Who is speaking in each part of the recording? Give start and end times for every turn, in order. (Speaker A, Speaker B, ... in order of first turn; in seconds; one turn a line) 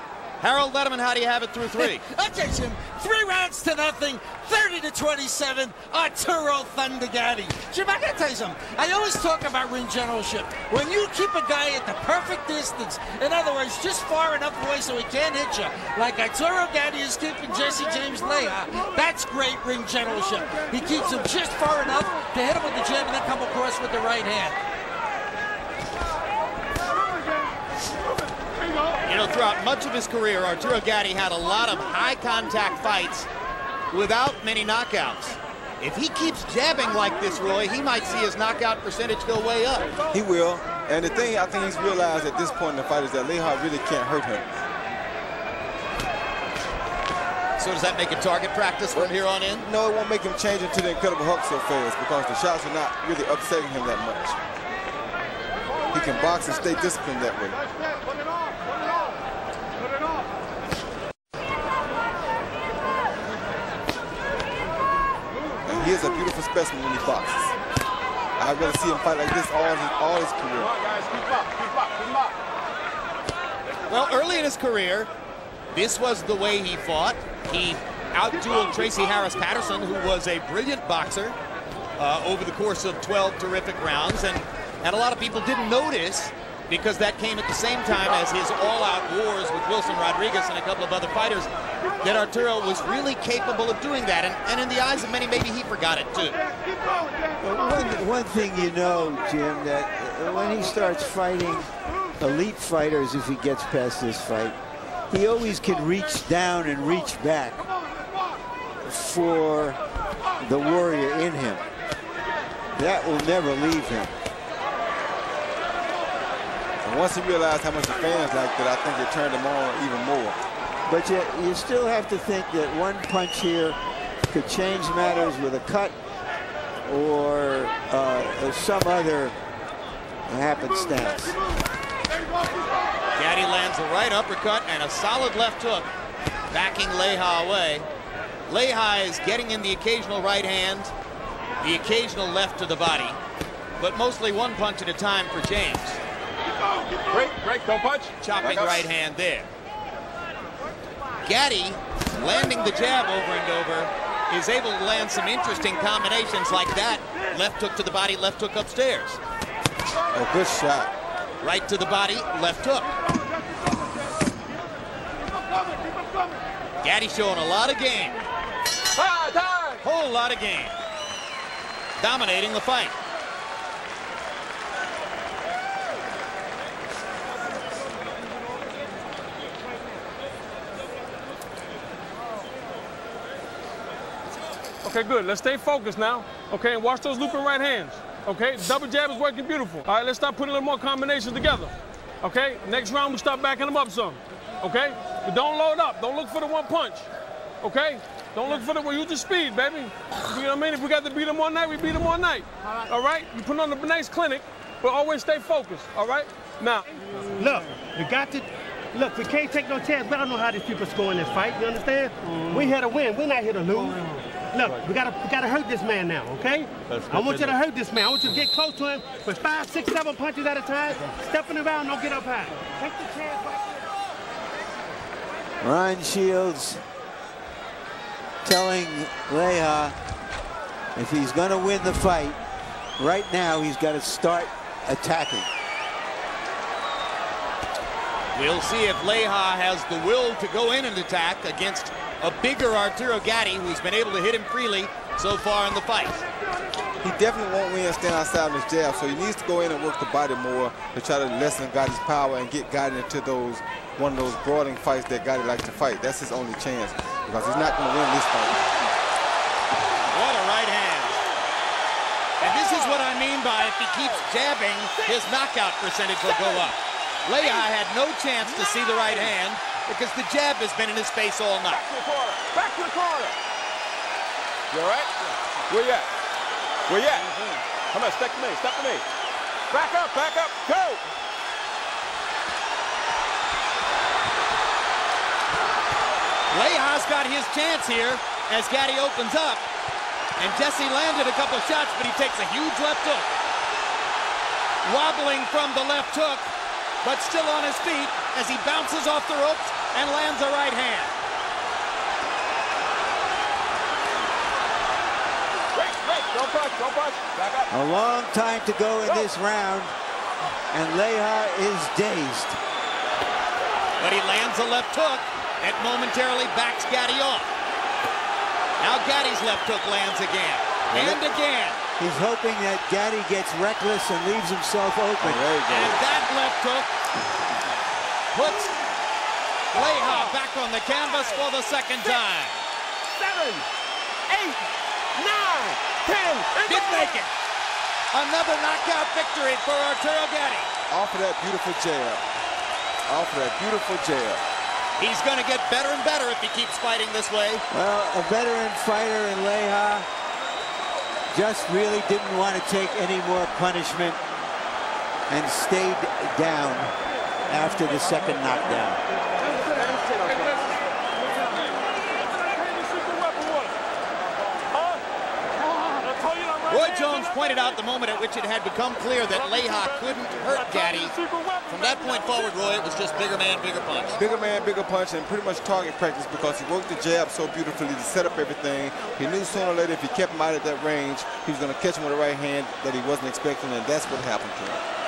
Speaker A: 0.4-2.0
Speaker B: 1.8-24.6
Speaker A: 29.1-33.3
Speaker A: 33.9-39.9
Speaker C: 40.1-44.5
Speaker A: 47.6-49.6
Speaker C: 48.9-54.4
Speaker C: 55.9-57.6
Speaker C: 65.7-67.5
Speaker C: 68.4-70.7
Speaker D: 70.6-72.4
Speaker A: 73.9-75.1
Speaker A: 75.7-81.3
Speaker A: 82.0-91.5
Speaker A: 92.0-96.4
Speaker E: 97.4-104.6
Speaker E: 105.1-107.7
Speaker E: 108.8-109.8
Speaker E: 110.4-111.6
Speaker E: 112.8-114.1
Speaker C: 116.8-120.4
Speaker E: 120.8-123.8
Speaker E: 124.3-126.0
Speaker E: 126.8-129.3
Speaker E: 130.3-131.4
Speaker A: 133.2-135.9
Speaker A: 136.5-137.8
Speaker A: 138.5-140.9
Speaker A: 141.6-143.2
Speaker A: 143.8-146.0
Speaker D: 147.1-148.9
Speaker A: 148.2-149.5
Speaker A: 151.2-159.2
Speaker C: 160.1-160.9
Speaker A: 161.4-162.9
Speaker A: 166.8-168.2
Speaker D: 169.0-169.8
Speaker A: 169.8-170.8
Speaker A: 172.0-172.9
Speaker F: 184.8-197.1
Speaker F: 197.6-206.8
Speaker G: 207.3-223.8
Speaker E: 225.6-226.8
Speaker E: 228.4-229.9
Speaker E: 230.9-232.4
Speaker E: 233.0-235.5
Speaker A: 238.3-246.2
Speaker C: 247.0-258.7
Speaker A: 260.1-261.2
Speaker A: 262.4-271.9
Speaker D: 262.4-263.1
Speaker D: 263.9-264.3
Speaker D: 266.2-266.7
Speaker D: 268.7-269.3
Speaker D: 271.7-273.4
Speaker D: 274.7-276.1
Speaker D: 276.9-279.0
Speaker D: 279.7-281.0
Speaker A: 286.5-289.6
Speaker A: 290.4-293.3
Speaker A: 294.8-296.5
Speaker A: 297.0-301.1
Speaker D: 305.7-307.7
Speaker E: 307.7-309.9
Speaker E: 310.7-312.6
Speaker A: 314.0-317.5
Speaker A: 318.8-321.8
Speaker C: 320.9-321.2
Speaker E: 322.0-325.5
Speaker C: 325.2-326.0
Speaker A: 325.7-326.9
Speaker A: 328.3-328.7
Speaker A: 329.7-332.6
Speaker D: 329.8-330.4
Speaker D: 330.9-331.5
Speaker D: 333.1-333.7
Speaker D: 334.3-337.3
Speaker A: 336.7-337.3
Speaker A: 338.1-340.7
Speaker C: 340.9-342.2
Speaker C: 343.1-344.4
Speaker A: 345.0-347.6
Speaker E: 347.7-350.1
Speaker E: 351.3-354.2
Speaker E: 355.3-356.9
Speaker E: 357.5-359.0
Speaker D: 359.7-360.7
Speaker F: 361.3-361.6
Speaker F: 362.2-363.8
Speaker F: 364.7-365.0
Speaker F: 365.7-367.8
Speaker A: 366.7-371.2
Speaker F: 369.4-372.6
Speaker A: 371.7-374.2
Speaker C: 374.2-384.8